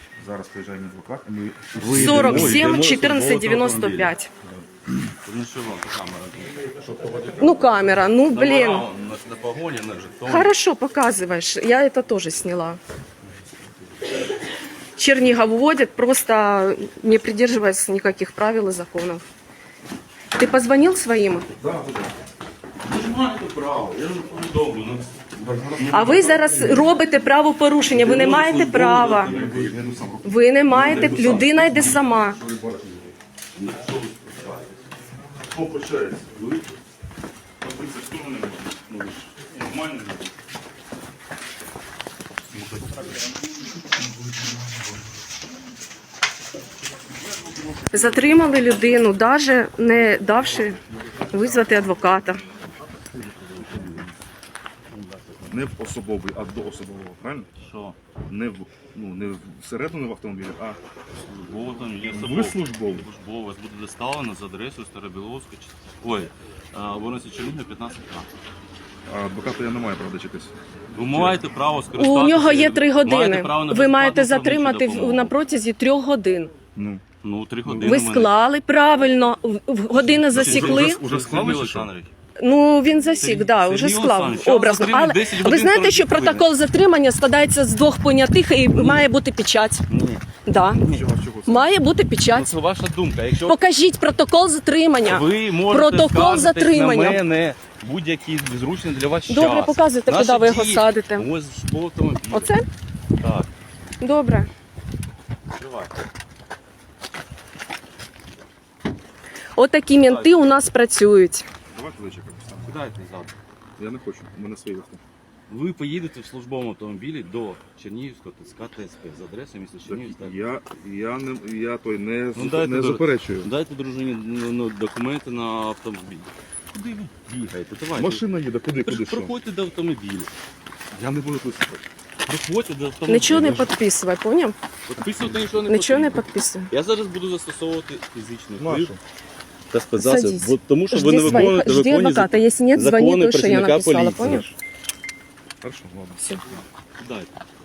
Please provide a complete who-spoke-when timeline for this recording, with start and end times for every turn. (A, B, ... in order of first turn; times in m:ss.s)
0:00.2-0:02.7 A
0:01.7-0:04.1 B
0:01.8-0:04.3 C
0:05.2-0:06.7 B
0:06.9-0:07.5 A
0:07.4-0:08.8 C
0:08.3-0:10.5 B
0:10.2-0:12.8 C
0:15.0-0:19.2 C
0:20.4-0:21.5 C
0:21.6-0:22.1 A
0:22.8-0:26.9 B
0:25.4-0:26.8 A
0:25.9-0:29.3 C
0:27.9-0:30.0 B
0:29.1-0:33.1 A
0:30.2-0:32.4 C
0:30.7-0:32.0 B
0:33.5-0:34.7 B
0:35.4-0:36.4 A
0:36.3-0:36.7 B
0:37.6-0:39.4 A
0:39.0-0:40.3 B
0:42.6-0:43.1 B
0:47.3-0:48.6 B
0:47.9-0:50.8 C
0:51.3-0:52.4 C
0:53.2-0:54.1 B
0:54.9-0:55.6 B
0:55.5-0:57.5 A
0:57.6-0:58.0 B
0:58.3-1:00.8 A
1:01.1-1:08.3 B
1:02.1-1:03.1 A
1:09.1-1:11.4 A
1:10.9-1:15.3 B
1:12.0-1:16.5 C
1:16.7-1:17.0 A
1:17.2-1:18.3 B
1:17.6-1:18.0 A
1:17.8-1:21.0 C
1:19.9-1:22.1 B
1:20.3-1:21.9 A
1:22.4-1:29.8 C
1:23.2-1:26.5 B
1:28.7-1:29.1 B
1:29.9-1:30.2 B
1:30.4-1:30.8 C
1:30.8-1:31.7 A
1:31.4-1:32.5 C
1:32.3-1:33.6 B
1:33.4-1:37.2 C
1:35.0-1:42.5 B
1:39.3-1:41.3 C
1:42.3-1:42.6 C
1:43.2-1:43.5 B
1:44.0-1:44.5 C
1:45.5-1:45.9 B
1:49.6-1:51.4 C
1:50.0-1:50.6 B
1:51.7-1:52.7 A
1:52.6-1:53.3 B
1:53.8-1:55.0 A
1:55.5-2:00.4 B
1:59.8-2:03.5 A
2:02.3-2:08.2 B
2:07.9-2:09.3 A
2:08.8-2:10.3 B
2:10.9-2:11.8 A
2:12.2-2:13.8 B
2:13.1-2:14.5 C
2:14.8-2:18.9 B
2:15.7-2:16.7 C
2:18.6-2:19.0 A
2:19.7-2:24.5 B
2:20.0-2:24.5 C
2:25.6-2:26.5 A
2:27.0-2:27.3 B